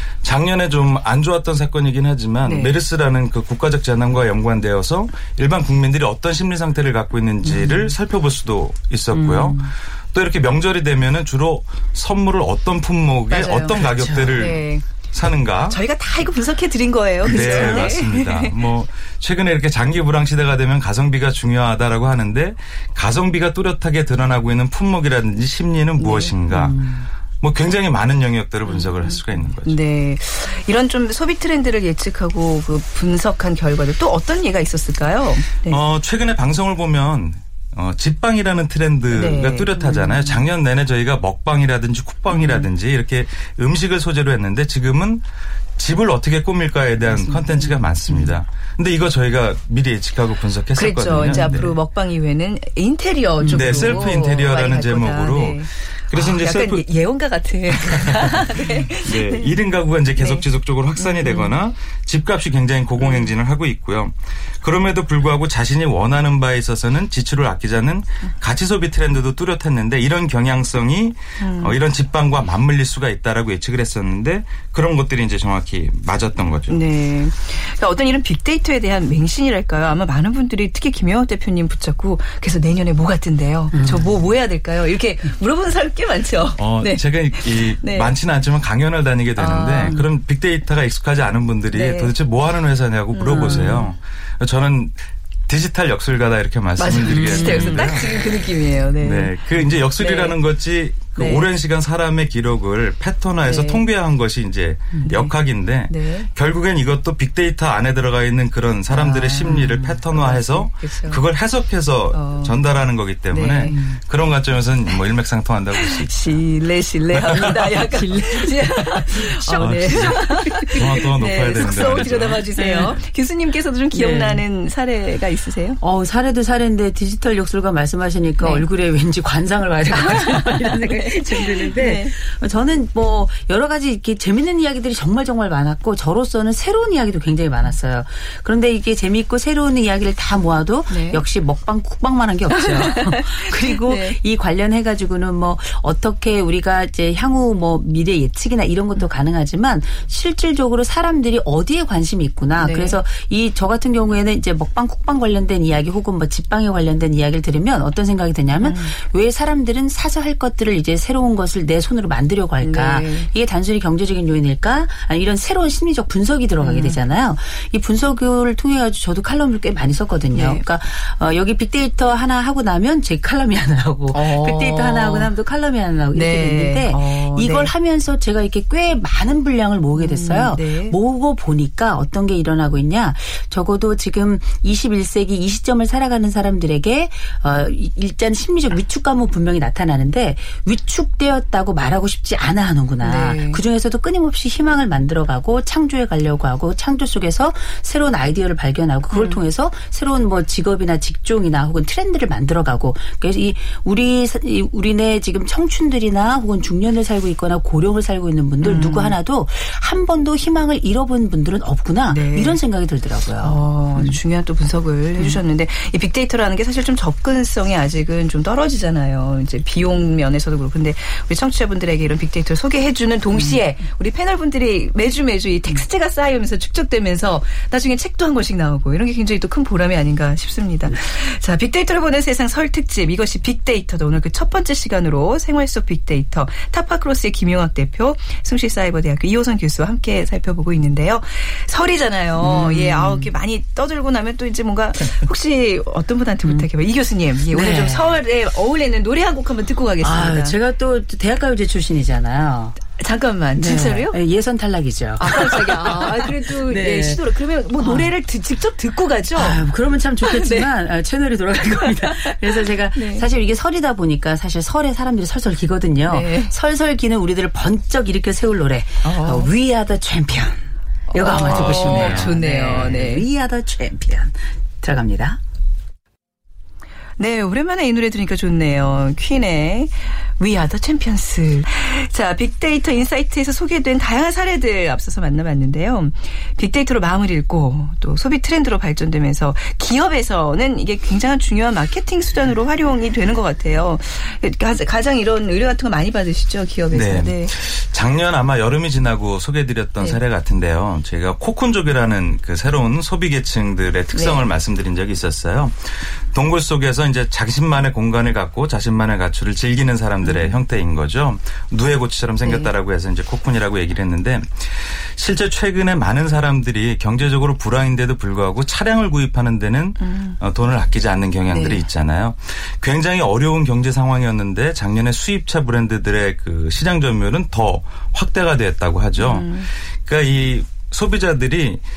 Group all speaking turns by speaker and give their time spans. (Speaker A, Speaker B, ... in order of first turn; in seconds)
Speaker A: 0.2-15.8, 17.2-29.8, 35.7-45.2, 45.8-51.8, 53.5-56.9, 57.9-76.8, 86.6-95.0, 95.5-98.2, 99.0-116.2, 117.2-117.6, 119.5-122.4, 271.3-272.4, 296.9-331.8
Speaker B: 2.4-2.8, 13.3-14.8, 15.7-18.5, 26.0-26.3, 28.6-35.8, 39.1-40.4, 42.3-42.7, 47.1-47.7, 50.8-59.5, 60.2-60.4, 61.0-61.5, 63.0-63.3, 71.4-71.8, 76.7-88.1, 89.4-90.0, 91.7-92.1, 93.1-93.9, 96.8-99.3, 100.0-100.3, 101.2-101.5, 103.4-103.8, 105.0-105.3, 105.9-106.3, 108.9-111.2, 112.1-112.5, 113.3-113.8, 115.8-125.8, 128.4-128.6, 129.9-132.1, 140.9-141.2, 142.5-144.2, 152.6-153.0, 158.6-158.9, 162.6-163.3, 166.6-167.0, 170.3-170.6, 174.1-175.3, 176.1-177.7, 179.9-181.0, 193.0-193.6, 199.1-199.4, 208.6-209.1, 212.1-212.6, 213.4-250.6, 252.9-254.2, 255.2-259.6, 260.2-260.7, 261.7-263.3, 266.1-266.5, 269.0-269.5, 271.1-273.2, 277.2-297.5, 304.1-304.4, 310.2-310.5, 312.4-312.7, 320.0-320.4, 321.5-321.8, 329.2-329.7
Speaker C: 7.4-7.9, 9.1-9.7, 13.9-14.4, 17.2-17.9, 26.5-27.1, 48.1-48.3, 51.2-51.6, 53.4-54.0, 83.7-84.1, 93.5-93.9, 97.1-98.0, 109.4-109.8, 113.7-114.0, 117.3-121.0, 122.6-123.0, 123.9-124.4, 125.8-214.2, 223.3-223.6, 242.4-243.3, 247.5-248.1, 250.0-252.8, 253.6-257.2, 257.8-258.1, 259.3-275.4